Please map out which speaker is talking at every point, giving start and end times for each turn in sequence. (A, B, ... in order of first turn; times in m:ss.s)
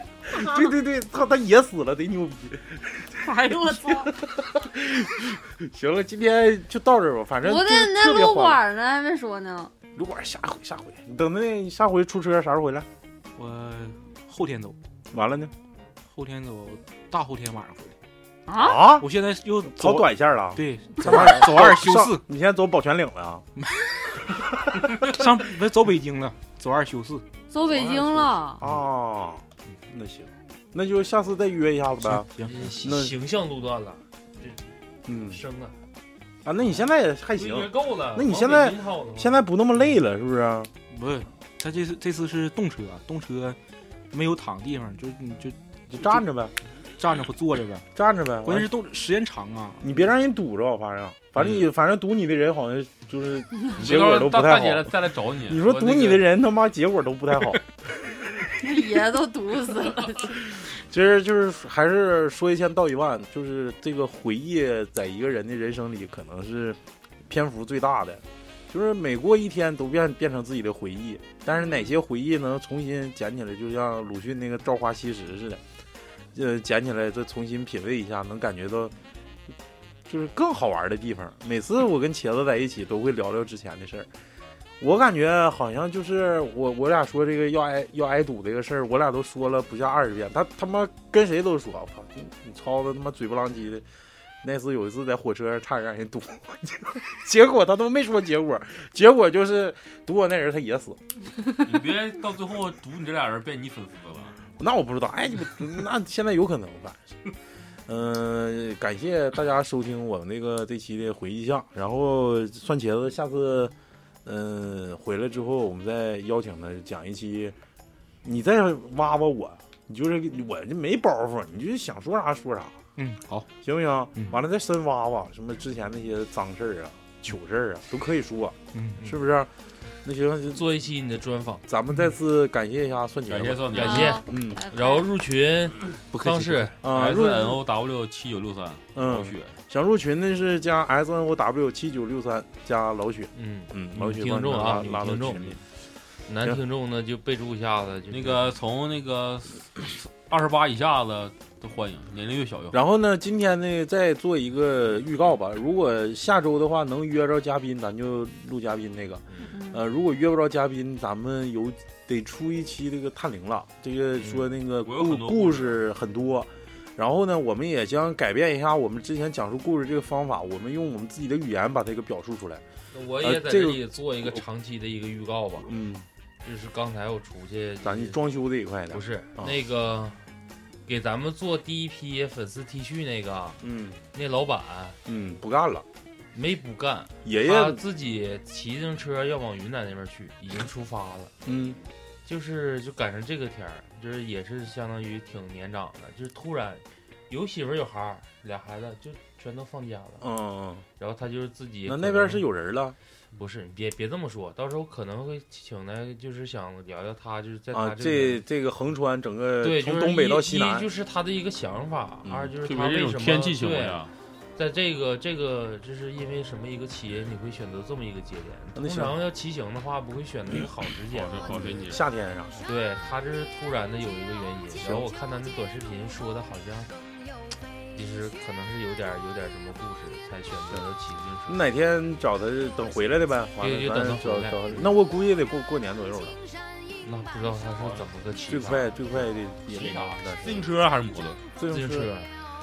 0:00.3-0:08.6 A
0:03.2-0:04.1 B
0:07.4-0:09.7 B
0:10.0-0:12.9 A
0:13.4-0:14.8 C
0:15.1-0:15.5 A
0:16.1-0:18.0 C
0:18.5-0:19.0 B
0:18.5-0:19.1 A
0:19.0-0:22.2 C
0:19.7-0:23.4 A
0:23.6-0:23.9 C
0:25.0-0:27.2 C
0:27.5-0:28.6 B
0:28.6-0:32.3 A
0:32.0-0:32.7 C
0:32.4-0:34.6 D
0:32.8-0:33.2 A
0:35.1-0:35.4 A
0:35.2-0:35.7 D
0:36.4-0:40.7 A
0:37.4-0:39.4 D
0:40.9-0:43.6 C
0:44.1-0:46.2 C
0:45.9-0:46.5 A
0:47.0-0:47.9 C
0:48.0-0:48.7 A
0:48.4-0:50.0 C
0:49.8-0:57.6 A
0:53.7-0:56.3 E
0:58.6-1:00.4 B
1:00.7-1:15.6 A
1:16.3-1:18.9 A
1:20.1-1:24.1 A
1:24.8-1:33.8 A
1:34.4-1:41.0 A
1:41.6-1:44.4 E
1:44.6-1:47.2 A
1:47.9-1:53.7 A
1:54.2-1:57.6 A
1:58.2-2:02.8 A
2:03.0-2:03.5 C
2:03.6-2:09.5 A
2:08.7-2:09.0 C
2:10.0-2:10.7 A
2:10.5-2:11.6 D
2:11.7-2:14.6 A
2:13.3-2:14.2 E
2:13.7-2:16.7 D
2:13.7-2:15.1 B
2:16.1-2:16.7 C
2:16.8-2:17.6 A
2:16.8-2:19.6 E
2:19.0-2:25.6 A
2:23.4-2:25.6 D
2:26.3-2:28.5 D
2:28.1-2:32.8 E
2:32.7-2:52.6 A
2:39.5-2:39.8 B
2:44.8-2:45.8 E
2:52.9-2:55.7 D
2:53.2-2:54.4 A
2:55.6-2:56.1 A
2:56.4-2:58.2 D
2:57.8-2:59.6 A
2:58.9-3:00.2 D
3:00.9-3:03.6 D
3:03.6-3:04.0 A
3:04.1-3:05.0 D
3:05.1-3:05.9 A
3:06.3-3:11.3 D
3:07.2-3:07.8 A
3:11.4-3:11.8 A
3:12.3-3:20.2 D
3:20.2-3:20.8 A
3:21.0-3:22.4 D
3:21.9-3:23.0 A
3:23.3-3:28.4 D
3:27.7-3:30.9 A
3:29.6-3:41.8 D
3:32.2-3:32.5 A
3:32.6-3:34.1 E
3:38.8-3:39.2 A
3:41.1-3:42.0 E
3:41.5-3:42.6 A
3:42.6-3:46.9 D
3:44.8-3:45.1 A
3:47.9-3:51.6 D
3:51.5-3:56.4 A
3:53.6-3:54.9 D
3:57.0-3:59.0 D
3:58.5-4:00.7 A
3:59.7-4:01.4 E
4:01.6-4:02.1 A
4:01.7-4:02.3 D